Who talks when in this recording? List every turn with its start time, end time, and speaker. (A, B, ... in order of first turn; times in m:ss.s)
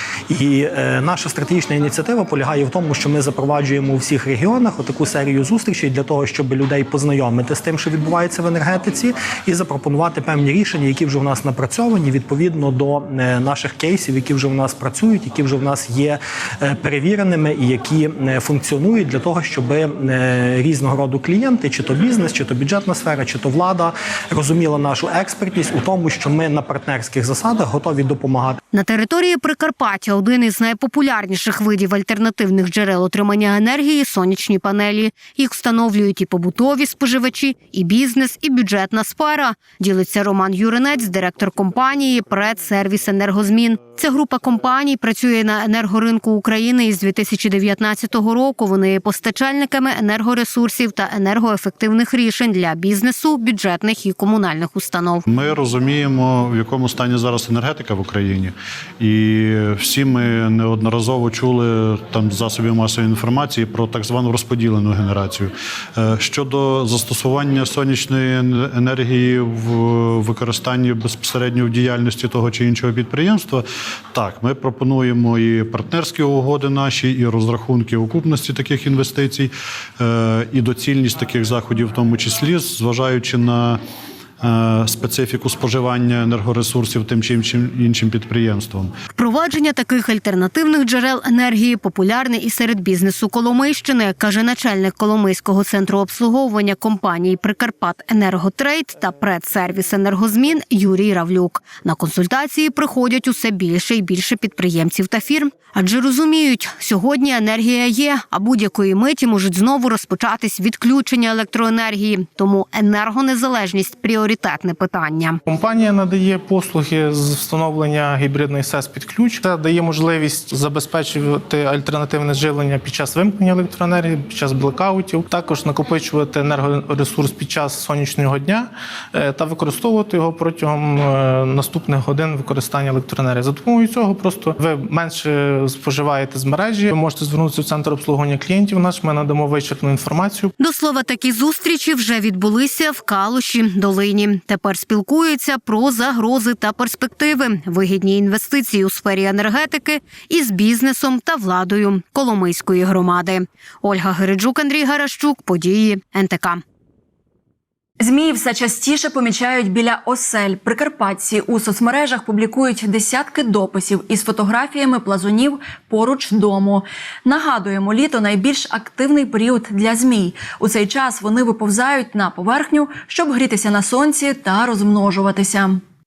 0:00.3-0:28.6 A
0:28.7-0:55.2 B
0:55.3-1:23.8 C
1:24.4-1:28.9 C
1:29.2-1:55.4 B
1:55.5-2:20.5 D
2:20.6-2:36.6 B
2:38.0-2:55.8 E